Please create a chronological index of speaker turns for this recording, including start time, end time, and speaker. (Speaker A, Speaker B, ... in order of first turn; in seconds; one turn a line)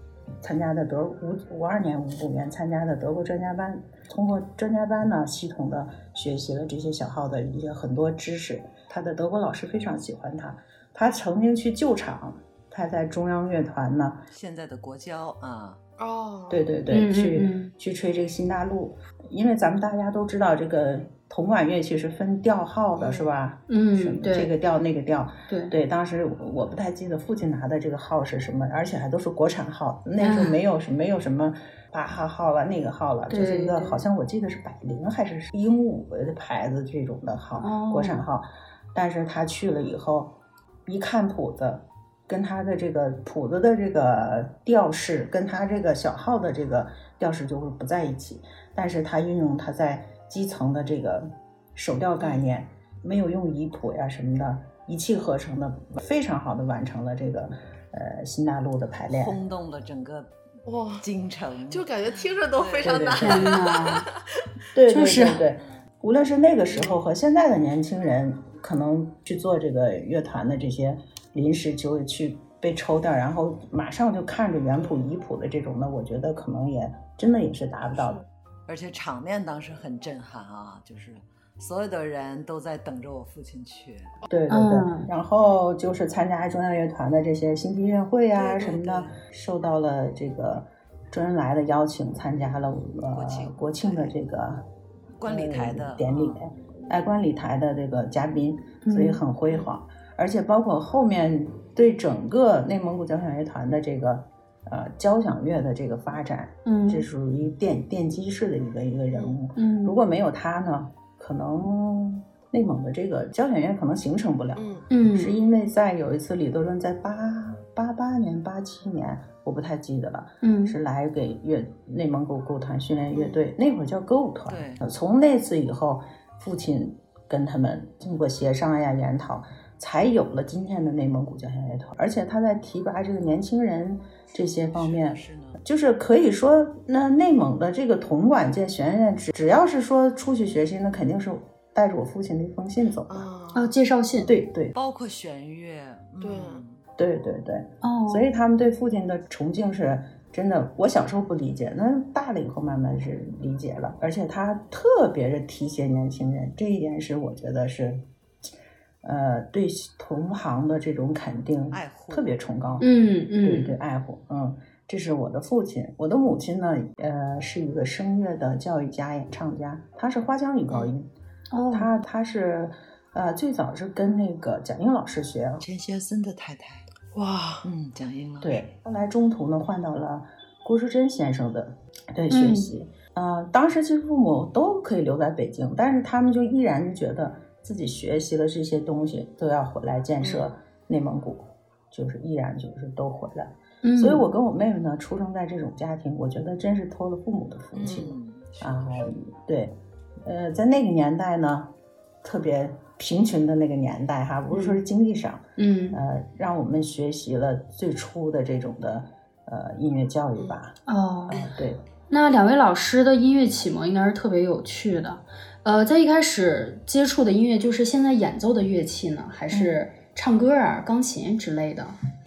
Speaker A: 0.4-14.3
Speaker B: 14.3-15.8
Speaker C: 16.0-16.7
Speaker A: 16.5-40.4
Speaker D: 16.9-17.7
Speaker C: 23.0-23.3
Speaker D: 23.7-24.5
Speaker D: 25.5-25.7
Speaker D: 30.2-30.6
Speaker D: 33.3-34.0
Speaker D: 37.6-38.2
Speaker A: 40.9-59.4
Speaker C: 52.2-52.5
Speaker B: 59.1-60.3
Speaker C: 60.7-61.1
Speaker B: 61.0-61.9
Speaker C: 61.7-64.0
Speaker B: 62.5-63.4
Speaker A: 62.8-63.6
Speaker D: 63.2-64.1
Speaker A: 64.7-78.2
Speaker D: 64.9-65.4
Speaker C: 66.7-67.0
Speaker C: 74.8-75.1
Speaker C: 77.9-78.2
Speaker B: 78.7-84.2
Speaker A: 84.3-94.7
Speaker D: 84.5-85.1
Speaker B: 88.4-89.2
Speaker B: 93.1-94.2
Speaker B: 95.2-96.5
Speaker A: 95.2-143.3
Speaker D: 98.8-99.2
Speaker D: 106.7-107.1
Speaker C: 109.1-109.4
Speaker D: 109.5-110.0
Speaker C: 114.6-114.9
Speaker D: 114.9-115.3
Speaker D: 120.4-120.8
Speaker C: 123.2-123.4
Speaker B: 124.5-124.8
Speaker B: 134.7-135.6
Speaker C: 143.1-143.7
Speaker D: 143.5-144.3
Speaker A: 144.2-144.7
Speaker B: 144.7-146.8
Speaker C: 146.2-146.6
Speaker A: 147.0-158.1
Speaker D: 147.8-148.3
Speaker A: 159.0-162.9
Speaker B: 161.7-162.8
Speaker D: 162.8-163.8
Speaker A: 163.4-171.1
Speaker D: 171.5-171.9
Speaker A: 171.7-175.6
Speaker B: 175.6-176.9
Speaker C: 177.1-177.7
Speaker B: 177.6-178.7
Speaker A: 178.4-210.8
Speaker D: 182.3-182.7
Speaker C: 190.2-190.5
Speaker D: 193.8-194.2
Speaker B: 197.7-199.1
Speaker D: 205.6-206.0
Speaker D: 210.9-211.4
Speaker A: 211.3-211.8
Speaker D: 212.1-222.0
Speaker A: 219.5-219.8